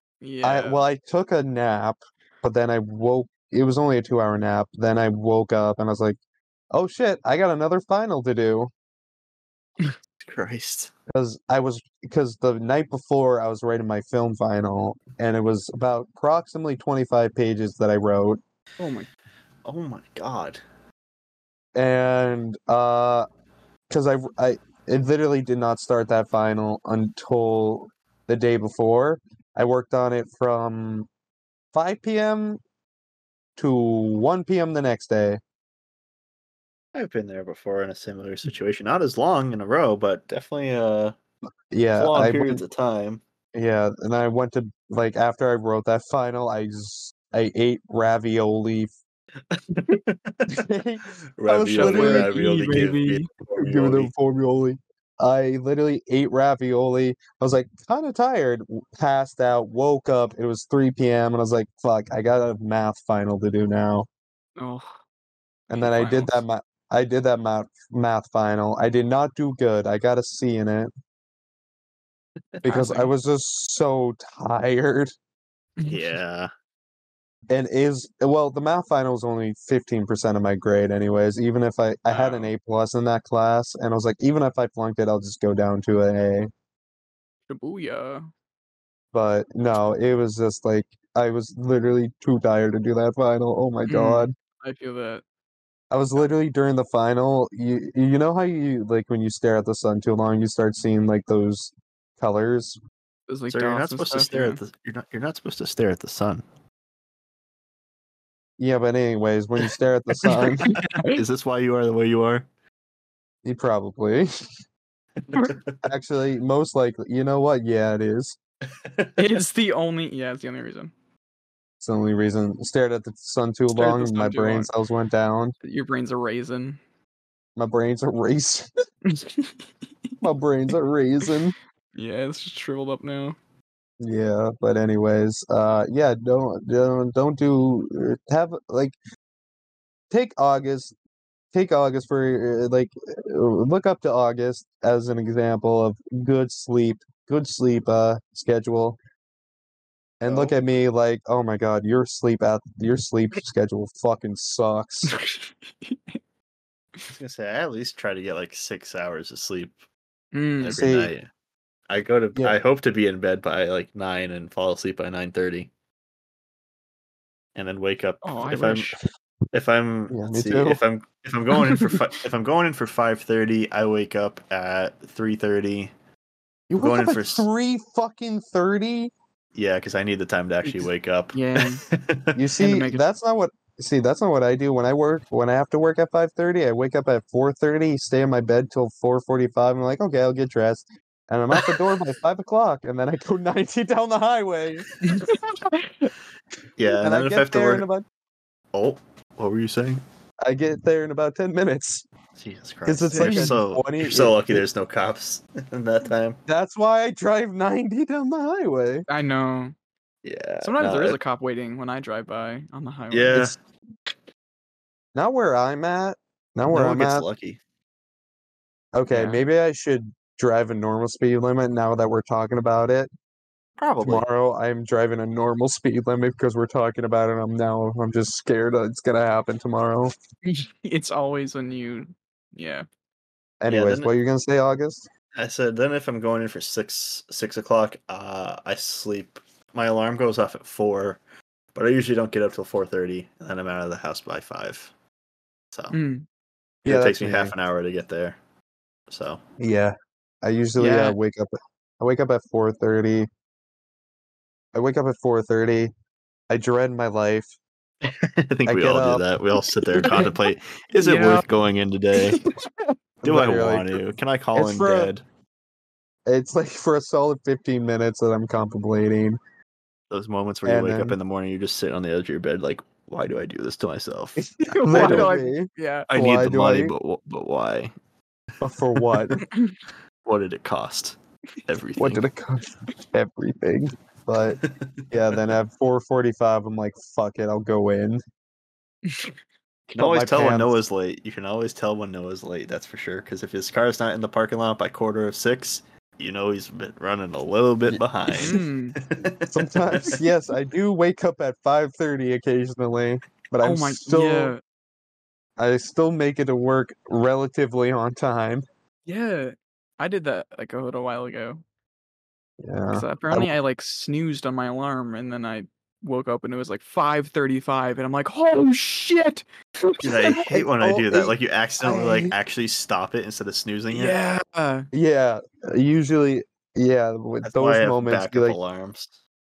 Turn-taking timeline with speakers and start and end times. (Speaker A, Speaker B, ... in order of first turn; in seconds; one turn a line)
Speaker A: 0.2-0.8
Speaker B: 0.4-6.2
Speaker B: 6.7-8.7
Speaker C: 10.2-10.9
Speaker B: 11.1-18.4
Speaker A: 18.8-19.1
Speaker C: 19.6-20.6
Speaker B: 21.8-23.3
Speaker B: 23.9-31.1
Speaker B: 31.7-32.6
Speaker B: 33.6-35.4
Speaker C: 36.9-41.1
Speaker B: 41.7-42.6
Speaker C: 42.0-43.2
Speaker B: 43.5-48.9
Speaker C: 49.5-50.6
Speaker B: 50.5-52.4
Speaker C: 51.4-54.1
Speaker A: 51.8-53.3
Speaker B: 53.6-64.1
Speaker A: 64.6-64.9
Speaker B: 65.7-70.9
Speaker A: 65.7-66.5
Speaker B: 72.6-75.1
Speaker A: 72.7-73.1
Speaker C: 75.9-76.5
Speaker B: 77.5-86.5
Speaker C: 82.1-82.5
Speaker A: 87.5-88.3
Speaker B: 89.1-94.3
Speaker A: 93.9-95.2
Speaker B: 95.9-102.8
Speaker A: 103.3-104.6
Speaker C: 103.5-106.4
Speaker B: 108.6-110.7
Speaker A: 110.3-111.2
Speaker C: 110.3-112.5
Speaker B: 113.5-114.3
Speaker C: 115.2-115.8
Speaker B: 115.8-118.4
Speaker C: 118.8-119.2
Speaker A: 119.2-120.9
Speaker B: 121.8-125.5
Speaker A: 123.7-124.7
Speaker A: 125.6-126.8
Speaker B: 127.6-128.7
Speaker A: 129.1-129.6
Speaker B: 130.2-131.6
Speaker A: 131.9-133.4
Speaker B: 134.0-139.0
Speaker B: 140.1-140.9
Speaker B: 141.5-149.0
Speaker B: 150.2-155.1
Speaker C: 150.2-150.6
Speaker A: 155.1-156.2
Speaker C: 157.1-159.8
Speaker A: 160.3-160.8
Speaker C: 160.6-161.3
Speaker B: 160.7-161.1
Speaker C: 161.9-165.7
Speaker C: 167.6-169.0
Speaker A: 168.2-169.0
Speaker C: 169.5-175.9
Speaker B: 170.1-170.8
Speaker A: 171.7-172.0
Speaker B: 176.7-179.1
Speaker C: 176.8-177.5
Speaker C: 179.6-182.4
Speaker A: 180.6-181.8
Speaker B: 182.3-194.9
Speaker A: 182.6-183.0
Speaker A: 195.0-196.1
Speaker C: 196.8-197.8
Speaker B: 197.0-198.0
Speaker C: 198.7-200.0
Speaker B: 200.4-202.1
Speaker C: 202.4-206.4
Speaker B: 202.9-204.6
Speaker A: 203.1-203.6
Speaker B: 206.5-209.1
Speaker A: 209.1-209.8
Speaker C: 210.2-211.2
Speaker A: 210.6-213.5
Speaker C: 213.1-213.6
Speaker B: 215.2-217.3
Speaker C: 216.7-217.6
Speaker B: 218.9-223.1
Speaker A: 219.1-219.4
Speaker C: 223.8-224.2
Speaker B: 224.0-230.1
Speaker A: 230.5-232.9
Speaker B: 233.6-235.1
Speaker C: 233.7-234.1
Speaker C: 235.4-241.2
Speaker C: 241.7-244.9
Speaker A: 245.9-246.3
Speaker C: 246.8-248.4
Speaker B: 246.9-247.5
Speaker C: 249.1-249.4
Speaker B: 249.6-253.3
Speaker A: 250.8-251.2
Speaker B: 254.7-255.9
Speaker B: 256.5-257.5
Speaker C: 258.0-262.4
Speaker B: 258.7-259.3
Speaker B: 260.0-260.3
Speaker A: 260.0-260.4
Speaker A: 261.0-261.5
Speaker A: 262.2-262.9
Speaker B: 263.2-264.0
Speaker C: 263.2-265.2
Speaker B: 264.6-265.1
Speaker B: 266.3-269.4
Speaker C: 270.1-275.3
Speaker B: 270.6-271.2
Speaker A: 274.6-276.1
Speaker B: 274.8-276.9
Speaker C: 276.1-277.9
Speaker B: 278.6-279.4
Speaker C: 278.9-279.4
Speaker A: 279.4-279.8
Speaker C: 280.2-282.2
Speaker B: 282.0-288.2
Speaker C: 284.6-285.4
Speaker A: 289.1-289.3
Speaker C: 289.9-300.2
Speaker B: 290.0-290.7
Speaker B: 297.9-298.6
Speaker A: 298.4-299.0
Speaker B: 299.5-304.5
Speaker A: 303.6-304.6
Speaker B: 305.6-308.6
Speaker A: 309.1-311.6
Speaker B: 312.6-313.5
Speaker A: 312.9-320.4
Speaker C: 320.0-324.2
Speaker B: 320.5-322.3
Speaker A: 323.9-324.9
Speaker B: 324.9-328.6
Speaker C: 327.4-329.2